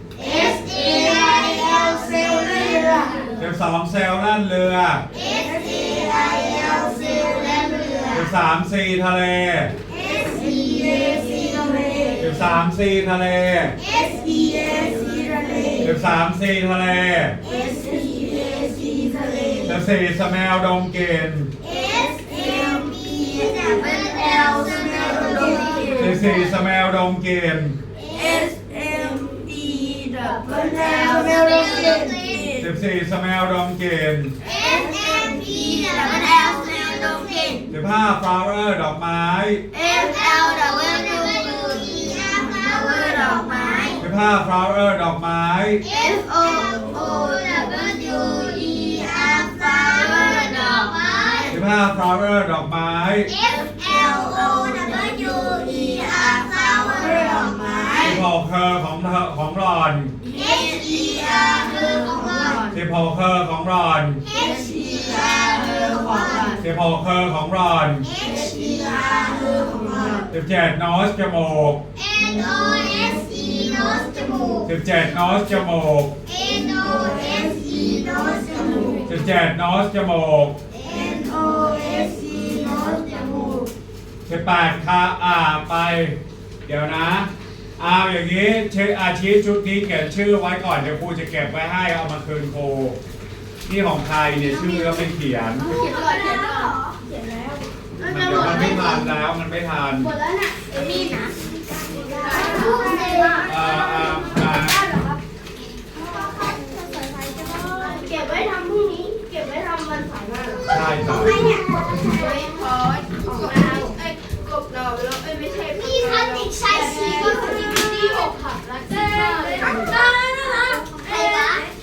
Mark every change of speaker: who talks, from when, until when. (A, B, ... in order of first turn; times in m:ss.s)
0:00.2-0:02.8 A
0:00.2-0:03.2 B
0:02.2-0:03.4 C
0:03.4-0:05.0 D
0:05.2-0:08.1 A
0:05.2-0:08.3 B
0:08.1-0:09.7 D
0:09.9-0:12.4 B
0:10.8-0:11.6 C
0:12.2-0:13.8 D
0:13.8-0:14.2 A
0:13.8-0:16.0 B
0:15.8-0:17.4 D
0:17.4-0:18.3 A
0:17.5-0:19.8 B
0:19.6-0:21.5 D
0:21.6-0:26.2 B
0:21.7-0:26.6 A
0:23.6-0:26.2 C
0:26.0-0:27.8 D
0:28.0-0:28.5 A
0:28.1-0:32.7 B
0:30.2-0:32.5 C
0:30.8-0:32.1 A
0:32.6-0:34.4 D
0:34.4-0:37.5 A
0:34.6-0:37.0 B
0:35.3-0:37.6 C
0:37.7-0:39.6 D
0:39.7-0:44.0 C
0:39.9-0:44.0 A
0:44.0-0:45.8 D
0:45.8-0:51.6 A
0:45.9-0:51.5 C
0:51.5-0:53.3 D
0:53.3-0:58.1 A
0:53.8-0:55.6 B
0:54.6-0:58.2 C
0:56.8-0:58.0 B
0:58.0-1:00.1 D
1:00.2-1:02.8 C
1:00.3-1:02.7 A
1:00.6-1:02.6 B
1:02.7-1:04.2 D
1:04.3-1:06.6 C
1:04.3-1:06.6 A
1:04.3-1:06.5 B
1:06.6-1:08.1 D
1:08.0-1:09.6 A
1:08.2-1:10.3 B
1:09.6-1:10.3 C
1:10.3-1:11.8 D
1:12.0-1:14.7 A
1:14.6-1:16.1 D
1:16.3-1:18.9 A
1:16.9-1:19.1 B
1:19.0-1:20.6 D
1:20.7-1:23.4 A
1:20.9-1:23.7 B
1:24.3-1:33.0 D
1:33.6-1:35.7 D
1:34.4-1:39.1 C
1:35.7-1:37.0 A
1:38.0-1:40.1 D
1:40.0-1:41.2 C
1:40.7-1:43.7 A
1:42.0-1:45.2 C
1:42.4-1:43.4 B
1:43.4-1:44.9 D
1:46.1-1:48.2 A
1:47.5-1:50.7 C
1:50.7-1:51.4 D
1:50.7-1:52.7 A
1:52.0-2:00.1 C
1:53.2-1:53.9 A
1:55.7-1:58.2 A
1:56.9-1:57.4 B
1:59.6-2:01.4 B
1:59.6-2:01.7 A
2:00.7-2:01.7 C